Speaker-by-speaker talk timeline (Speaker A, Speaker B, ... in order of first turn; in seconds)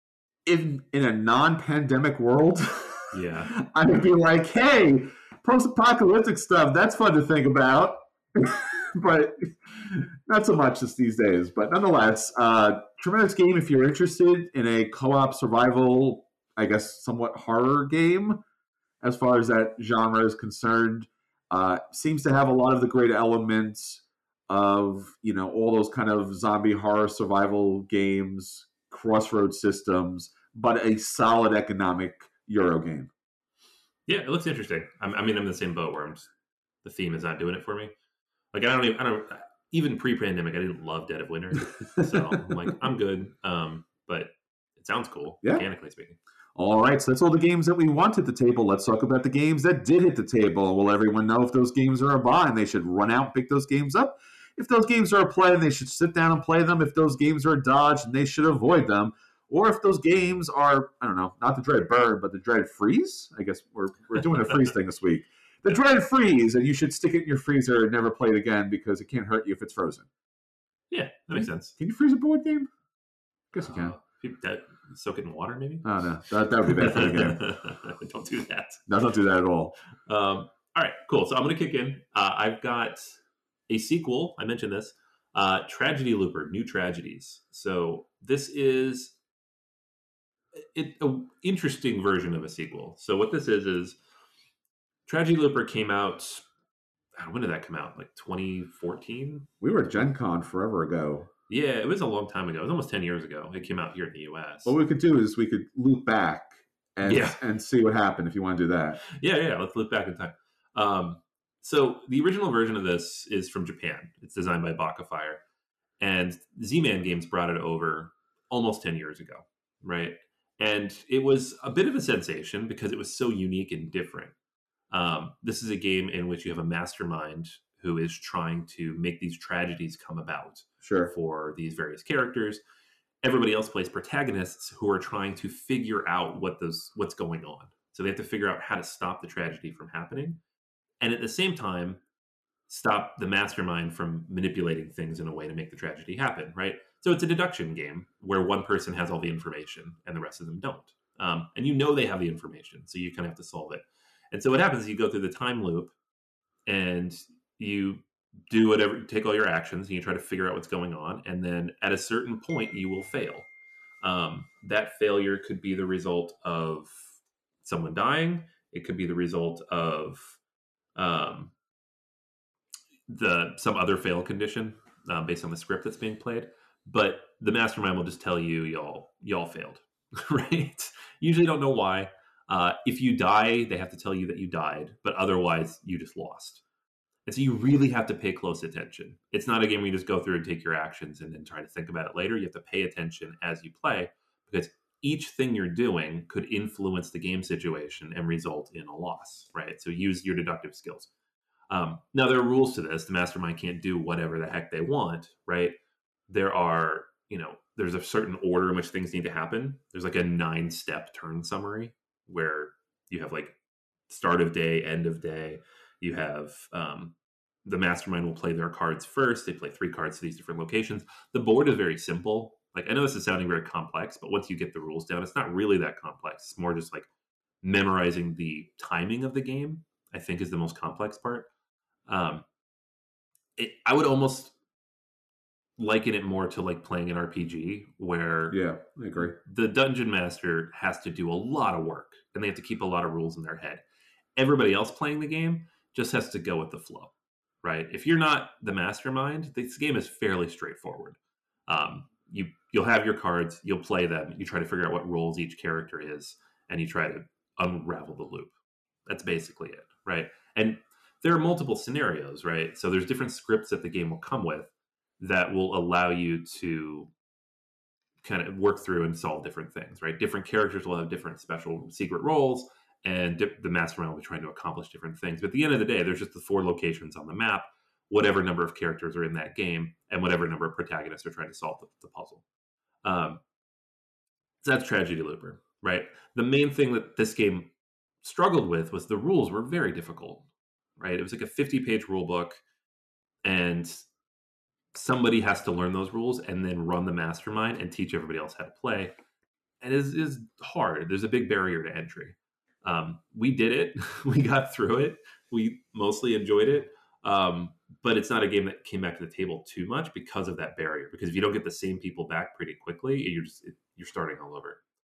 Speaker A: 0.4-18.4, 19.0-33.1, 46.5-70.1, 71.3-72.7, 73.5-74.0, 75.8-77.4, 78.9-79.8, 99.6-101.3, 104.6-109.0, 130.8-131.1, 238.5-239.3
Speaker B: 3.1-3.5, 34.1-36.3, 36.8-37.9, 38.5-46.2, 70.9-71.8, 73.7-76.0, 76.6-78.8, 80.0-89.2, 90.6-94.0, 95.0-96.5, 97.2-99.5, 101.5-104.7, 107.0-107.4, 109.0-115.4, 116.0-124.3, 124.9-132.6, 133.2-140.4, 141.0-142.0, 142.7-155.9, 156.7-163.5, 164.0-170.4, 170.9-171.5, 173.1-186.6, 187.2-201.1, 201.7-205.7, 206.3-213.6, 214.1-227.1, 227.6-231.5, 232.1-232.4, 233.6-234.5, 235.8-238.6, 239.3-243.8, 244.3-247.1, 247.6-258.5, 259.1-267.1, 268.2-282.4, 283.0-283.4, 284.6-287.7, 288.2-292.6, 293.4-294.1, 294.9-299.1, 299.8-314.8